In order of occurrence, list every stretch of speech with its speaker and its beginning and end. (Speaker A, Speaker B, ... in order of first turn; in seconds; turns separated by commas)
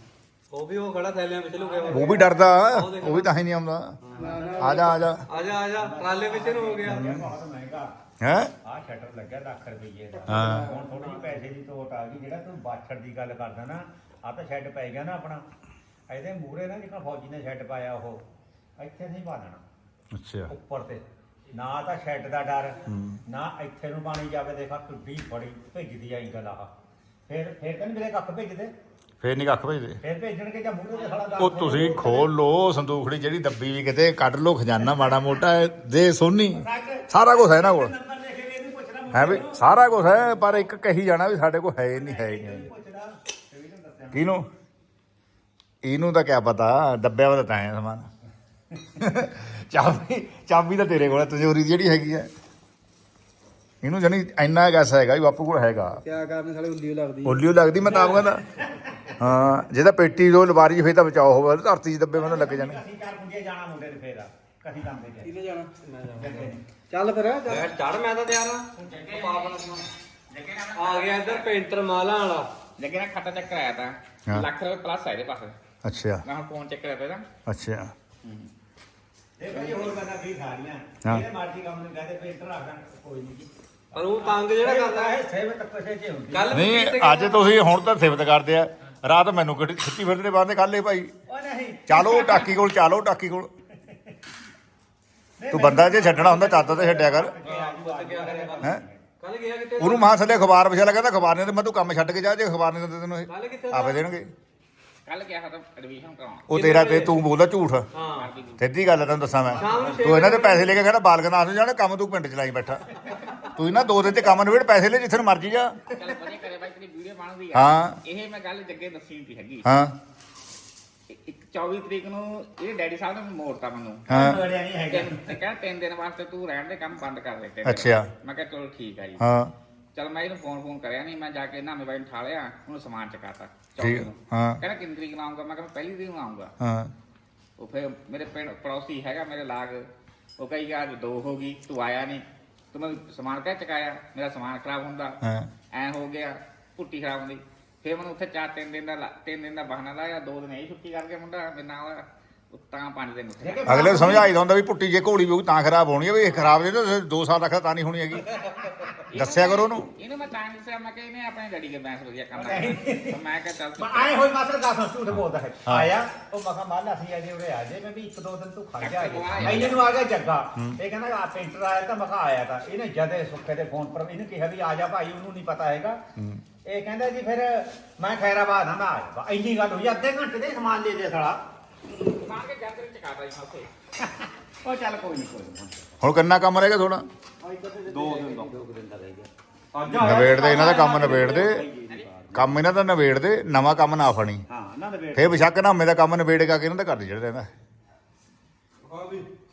Speaker A: 0.5-3.3, Speaker B: 1.9-4.0, Speaker A: 4.0-7.1, Speaker C: 4.1-5.0, Speaker B: 4.6-5.2, Speaker D: 5.3-7.9, Speaker B: 6.9-7.2, Speaker B: 8.2-8.5, Speaker D: 8.6-15.4, Speaker B: 10.3-10.7, Speaker C: 10.3-10.9, Speaker D: 16.1-18.2, Speaker D: 18.8-19.6, Speaker B: 20.1-20.5, Speaker D: 20.5-26.7, Speaker B: 22.9-23.2, Speaker D: 27.3-28.7, Speaker B: 29.2-30.0, Speaker D: 30.0-32.3, Speaker B: 31.4-37.9, Speaker D: 36.5-40.2, Speaker B: 39.1-42.6, Speaker D: 41.9-44.4, Speaker B: 44.1-44.5, Speaker B: 45.8-48.1, Speaker B: 49.0-52.3, Speaker B: 53.8-56.0, Speaker C: 56.0-57.9, Speaker B: 57.2-58.4, Speaker B: 59.1-62.8, Speaker D: 62.1-65.3, Speaker C: 65.2-65.7, Speaker A: 65.8-66.5, Speaker D: 66.1-66.6, Speaker C: 66.9-67.7, Speaker A: 67.4-69.8, Speaker E: 68.8-69.6, Speaker E: 70.3-71.6, Speaker A: 70.8-72.5, Speaker E: 72.8-75.5, Speaker B: 75.8-76.2, Speaker E: 76.2-77.2, Speaker B: 77.5-77.9, Speaker D: 78.2-78.5, Speaker D: 79.4-86.6, Speaker A: 83.9-85.2, Speaker A: 86.3-87.5, Speaker B: 86.5-91.1, Speaker D: 91.3-92.5, Speaker B: 91.9-93.5, Speaker D: 93.9-94.1, Speaker D: 95.4-99.0, Speaker B: 95.5-97.3, Speaker A: 97.4-100.1, Speaker B: 99.8-104.3, Speaker A: 103.3-104.0, Speaker E: 105.0-106.5, Speaker B: 106.5-107.9, Speaker A: 106.5-107.2, Speaker A: 107.9-108.3, Speaker E: 108.0-108.6, Speaker B: 108.6-115.8, Speaker A: 109.5-110.8, Speaker D: 109.6-110.1, Speaker E: 115.9-119.7, Speaker B: 117.5-118.0, Speaker B: 119.6-119.9, Speaker E: 121.1-124.0, Speaker D: 124.1-125.4, Speaker B: 124.1-124.4, Speaker E: 124.9-129.2, Speaker B: 127.6-128.1, Speaker B: 129.2-129.5, Speaker E: 129.9-136.5, Speaker B: 133.8-134.6, Speaker B: 136.6-136.9, Speaker E: 137.6-139.9, Speaker E: 140.4-145.2, Speaker B: 145.2-145.5, Speaker E: 145.7-154.2, Speaker D: 153.4-154.3, Speaker B: 153.7-158.3, Speaker E: 159.1-164.2, Speaker B: 159.1-159.9, Speaker D: 162.3-163.2, Speaker D: 163.8-176.0, Speaker B: 165.6-165.9, Speaker E: 168.8-170.0, Speaker B: 169.4-169.8, Speaker B: 176.2-176.4, Speaker D: 176.6-181.4, Speaker E: 182.0-183.7, Speaker D: 184.0-185.9, Speaker B: 186.0-187.1, Speaker D: 187.4-189.3, Speaker A: 187.9-188.4, Speaker A: 189.7-191.5, Speaker D: 189.9-192.6, Speaker B: 189.9-191.6, Speaker B: 192.3-194.4, Speaker D: 194.5-195.4, Speaker B: 195.1-197.5, Speaker A: 198.8-199.3